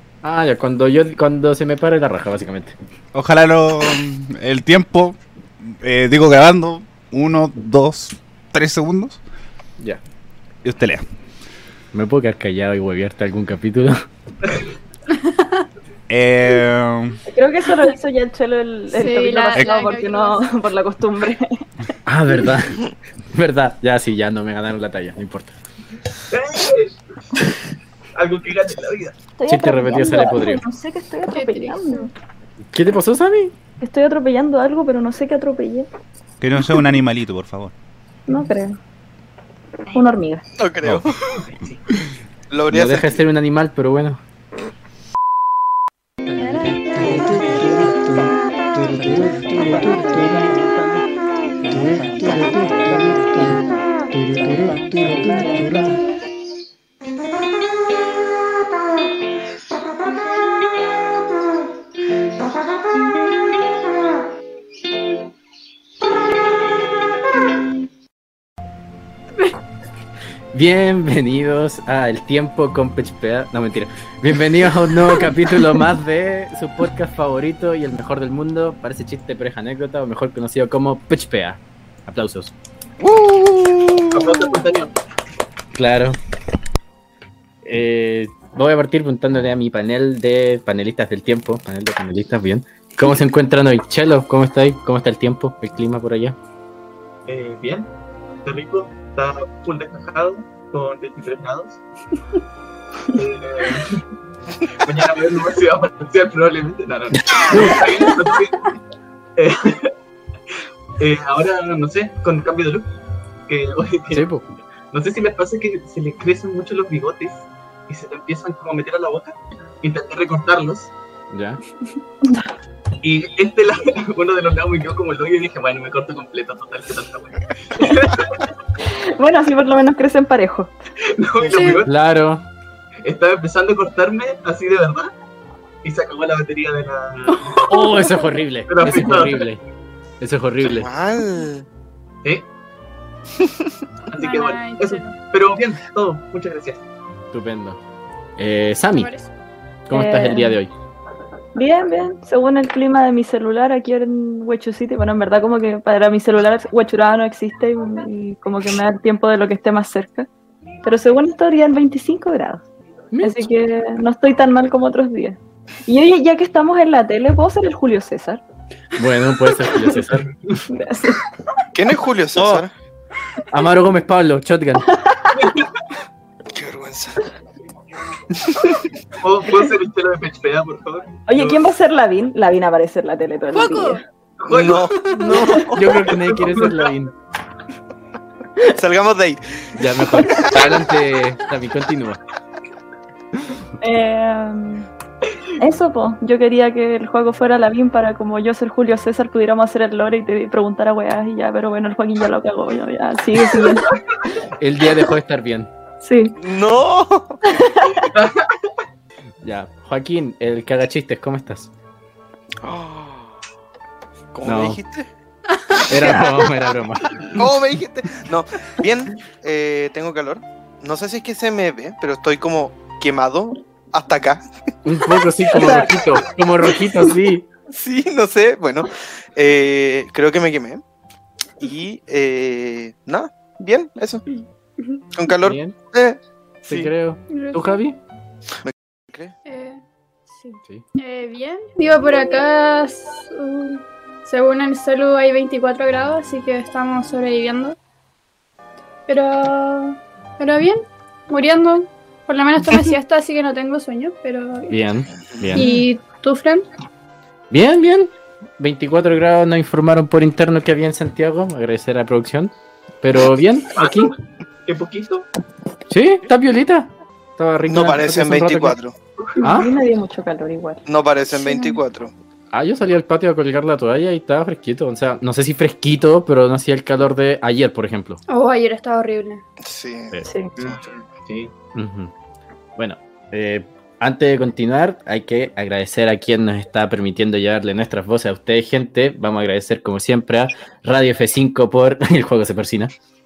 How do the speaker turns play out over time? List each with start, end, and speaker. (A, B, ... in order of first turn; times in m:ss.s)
0:00.2-0:02.8 A
0:03.1-0:09.2 B
0:10.6-0:11.0 B
0:11.9-0:14.0 A
0:15.1-0:15.7 C
0:16.1-0:17.2 B
0:17.3-0:21.9 D
0:18.9-0:20.6 C
0:22.1-0:25.6 A
0:26.3-0:27.0 E
0:28.2-0:29.2 E
0:29.4-0:32.1 D
0:29.5-0:30.6 A
0:31.3-0:32.1 C
0:32.7-0:33.5 A
0:33.8-0:35.9 D
0:36.4-0:37.7 B
0:38.3-0:38.8 D
0:39.9-0:40.4 D
0:40.6-0:41.4 F
0:40.8-0:42.0 E
0:42.5-0:43.2 F
0:42.7-0:44.2 A
0:46.9-0:47.9 D
0:49.0-0:49.4 A
1:10.5-1:22.5 A
1:23.0-1:24.6 F
1:24.1-1:25.0 E
1:25.7-1:26.2 A
1:27.6-1:36.4 A
1:37.3-1:37.9 E
1:38.4-1:41.8 E
1:43.1-1:44.0 E
1:44.8-1:48.7 E
1:47.3-1:47.9 A
1:49.4-1:49.9 E
1:51.0-1:52.9 E
1:53.5-1:54.3 E
1:54.1-1:54.5 A
1:54.9-2:00.9 E
2:01.3-2:01.6 A
2:03.0-2:08.5 E
2:08.8-2:10.7 D
2:11.0-2:11.9 E
2:11.4-2:11.8 F
2:11.5-2:11.8 C
2:11.8-2:12.5 A
2:13.0-2:15.1 E
2:15.8-2:17.7 E
2:17.4-2:18.2 C
2:17.6-2:19.6 A
2:18.7-2:19.5 E
2:18.8-2:19.2 C
2:20.2-2:20.9 A
2:20.6-2:21.7 F
2:23.4-2:23.7 F
2:24.1-2:26.8 E
2:24.2-2:25.2 C
2:27.3-2:27.8 A
2:28.4-2:29.1 A
2:29.0-2:29.3 C
2:29.9-2:30.7 A
2:29.9-2:30.6 D
2:31.6-2:40.3 D
2:40.8-2:42.6 D
2:43.1-2:43.5 A
2:43.2-2:48.4 D
2:49.0-2:50.3 A
2:50.7-2:51.3 D
2:51.7-2:52.7 F
2:52.4-2:52.7 A
2:53.5-2:54.9 A
2:54.9-2:55.4 D
2:55.4-2:55.7 E
2:56.5-2:57.3 F
2:58.4-2:58.8 F
2:59.2-3:01.6 E
3:01.3-3:04.0 D
3:03.5-3:04.0 C
3:04.4-3:04.9 E
3:04.5-3:06.0 F
3:05.1-3:07.1 A
3:06.0-3:06.9 E
3:08.6-3:10.6 F
3:09.8-3:12.2 A
3:13.8-3:14.9 D
3:15.6-3:24.0 D
3:23.6-3:24.1 E
3:24.6-3:25.7 A
3:26.0-3:26.4 D
3:26.4-3:27.4 F
3:27.4-3:28.1 D
3:28.1-3:28.7 E
3:29.4-3:31.7 A
3:32.6-3:33.4 F
3:34.3-3:35.1 F
3:34.4-3:34.8 A
3:35.8-3:36.7 F
3:35.9-3:37.4 A
3:37.3-3:44.4 F
3:44.8-3:47.5 A
3:45.5-3:46.0 D
3:47.7-3:50.8 F
3:51.6-3:54.2 F
3:55.1-3:56.9 F
3:55.4-3:55.8 A
3:56.6-3:58.0 A
3:57.3-3:57.8 C
3:58.6-3:59.3 F
3:59.5-4:07.8 C
4:09.1-4:14.8 C
4:14.7-4:15.7 A
4:15.5-4:16.6 C
4:17.5-4:24.1 A
4:23.8-4:24.1 E
4:24.7-4:25.3 E
4:25.9-4:28.8 A
4:27.7-4:29.0 F
4:29.4-4:30.8 D
4:29.4-4:29.7 A
4:30.9-4:32.1 F
4:31.4-4:31.8 C
4:32.5-4:38.2 A
4:38.3-4:39.4 C
4:39.6-4:40.8 F
4:40.2-4:40.5 D
4:40.6-4:41.5 E
4:41.7-4:42.1 A
4:42.8-4:52.9 A